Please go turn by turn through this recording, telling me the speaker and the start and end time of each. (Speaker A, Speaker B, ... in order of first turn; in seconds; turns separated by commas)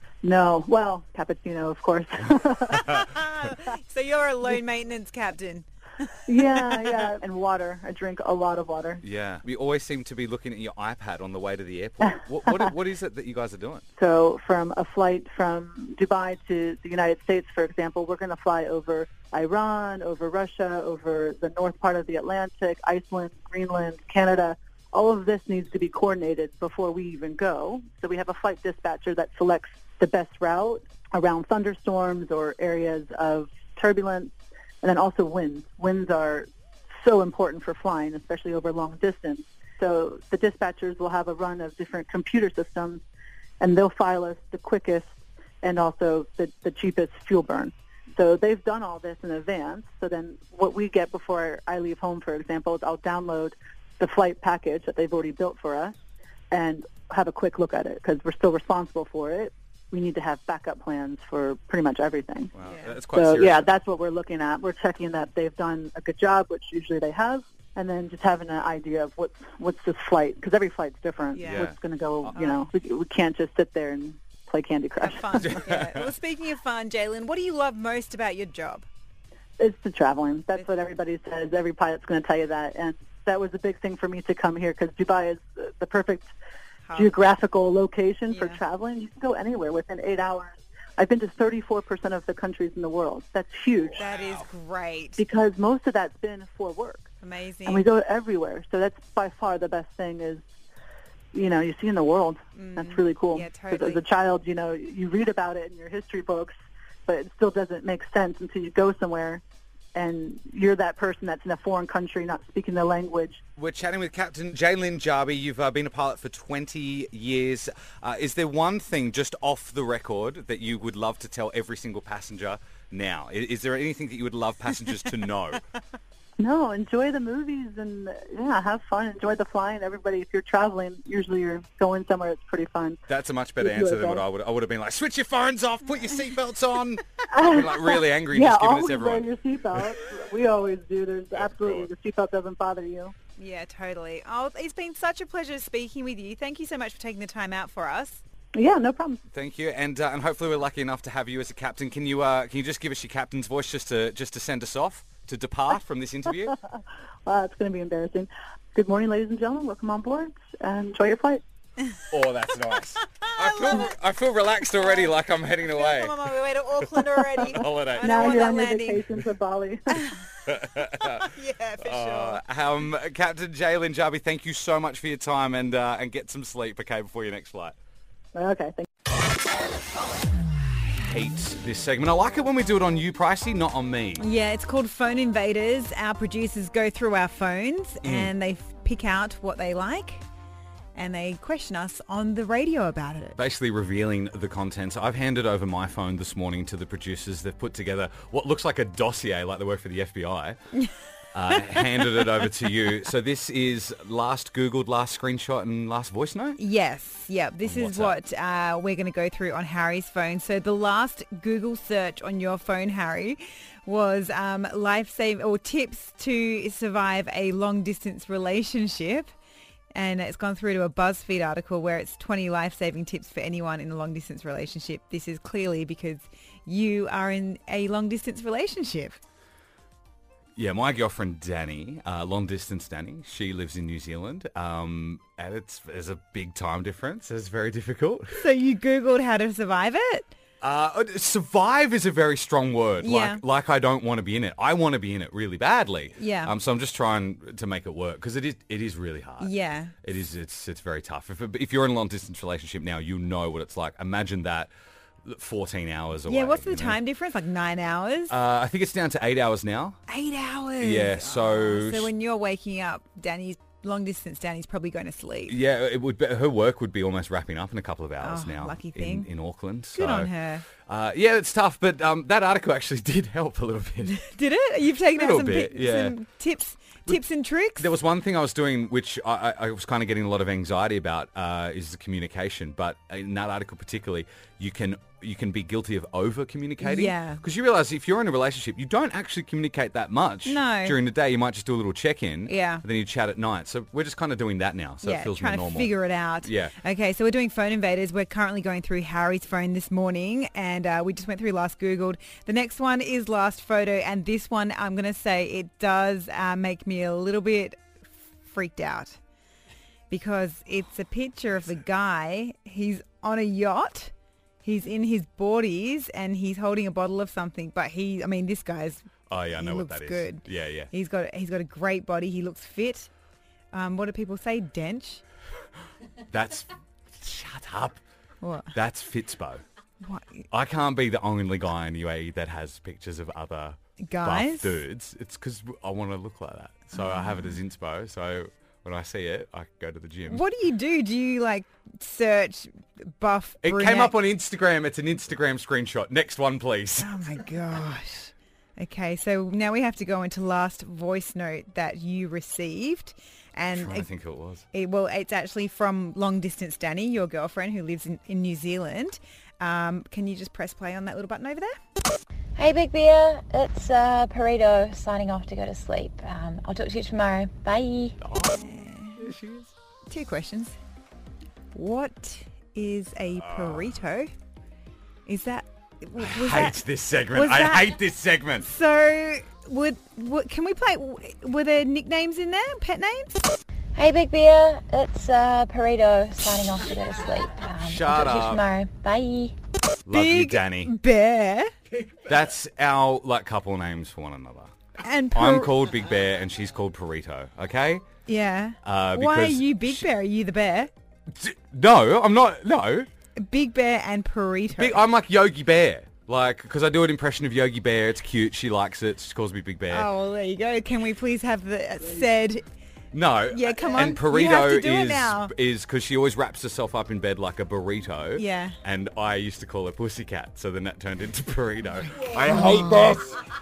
Speaker A: 0.2-2.9, Speaker B: 2.7-6.8, Speaker A: 6.3-9.0, Speaker C: 9.0-13.8, Speaker A: 14.0-36.5, Speaker A: 37.0-43.0, Speaker A: 43.6-55.9, Speaker A: 56.5-62.5, Speaker C: 62.6-63.7, Speaker B: 62.6-63.0, Speaker A: 63.1-75.4, Speaker B: 71.3-71.7, Speaker C: 71.5-72.3, Speaker B: 72.3-72.7, Speaker B: 75.0-78.9, Speaker C: 75.4-76.1, Speaker A: 79.6-86.3, Speaker B: 86.9-87.2, Speaker A: 87.0-94.0, Speaker B: 88.3-88.6, Speaker C: 93.8-94.5, Speaker B: 94.0-95.2, Speaker A: 95.2-97.1, Speaker B: 97.2-97.9, Speaker A: 97.7-100.4, Speaker A: 101.3-106.5, Speaker B: 102.5-104.0, Speaker A: 107.1-109.4, Speaker A: 110.0-113.4, Speaker C: 113.6-125.6, Speaker A: 126.4-133.0, Speaker C: 133.1-139.3, Speaker A: 133.6-134.2, Speaker A: 137.3-143.1, Speaker C: 141.3-141.9, Speaker B: 143.4-148.2, Speaker A: 148.6-149.2, Speaker C: 149.3-156.6, Speaker A: 157.3-161.4, Speaker C: 162.1-166.3, Speaker B: 163.2-163.9, Speaker B: 164.8-169.0, Speaker C: 167.4-168.5, Speaker A: 168.0-170.0, Speaker B: 169.9-170.2, Speaker C: 170.5-171.3, Speaker B: 170.8-172.4, Speaker C: 171.8-177.8, Speaker A: 178.3-178.9, Speaker C: 180.9-184.2, Speaker B: 184.2-190.2, Speaker C: 188.0-188.3, Speaker B: 190.9-193.4, Speaker C: 193.4-200.6, Speaker C: 201.3-206.6, Speaker B: 206.6-219.3, Speaker C: 207.7-208.2, Speaker B: 219.9-229.2, Speaker C: 230.6-238.4, Speaker B: 238.4-240.3, Speaker C: 240.6-254.7, Speaker B: 243.0-243.4, Speaker B: 246.2-246.5, Speaker B: 249.4-249.9, Speaker C: 255.2-257.0, Speaker B: 256.3-258.3, Speaker C: 258.3-260.0, Speaker B: 260.1-265.6, Speaker C: 260.8-262.1, Speaker C: 265.5-270.3, Speaker B: 268.2-269.3, Speaker B: 270.0-270.6, Speaker C: 270.9-274.2, Speaker B: 274.1-277.9, Speaker C: 275.1-276.2, Speaker C: 277.8-295.9, Speaker B: 286.8-287.4, Speaker B: 290.4-291.0, Speaker B: 292.5-292.8, Speaker B: 295.0-307.9, Speaker C: 296.4-296.8, Speaker B: 308.4-309.2, Speaker B: 310.1-314.1, Speaker B: 314.6-323.1, Speaker C: 319.3-320.9, Speaker B: 323.7-325.2, Speaker C: 326.3-328.0, Speaker B: 328.4-328.7, Speaker C: 328.7-329.6, Speaker B: 330.0-330.5, Speaker C: 330.5-340.4, Speaker B: 334.0-334.8, Speaker B: 336.9-337.5, Speaker B: 340.3-344.1, Speaker C: 343.6-347.1, Speaker B: 347.0-354.1, Speaker C: 353.7-354.6, Speaker B: 354.7-361.8, Speaker D: 362.6-368.1, Speaker C: 368.2-369.7, Speaker B: 368.5-369.3, Speaker B: 370.1-370.8, Speaker B: 371.7-374.3, Speaker C: 373.4-373.9, Speaker B: 375.3-376.8, Speaker C: 376.2-378.7, Speaker B: 377.3-378.0, Speaker B: 378.6-383.4, Speaker D: 384.0-389.5, Speaker C: 387.8-388.7, Speaker C: 390.1-390.9, Speaker B: 390.1-391.7, Speaker C: 392.2-394.7, Speaker B: 395.0-395.7, Speaker C: 395.3-398.0, Speaker B: 398.3-400.9, Speaker C: 398.9-400.1, Speaker C: 401.3-403.1, Speaker B: 403.4-405.0, Speaker C: 404.8-410.1, Speaker B: 409.9-412.6, Speaker C: 413.1-423.3, Speaker B: 413.5-415.5, Speaker B: 418.4-418.8, Speaker B: 422.5-423.1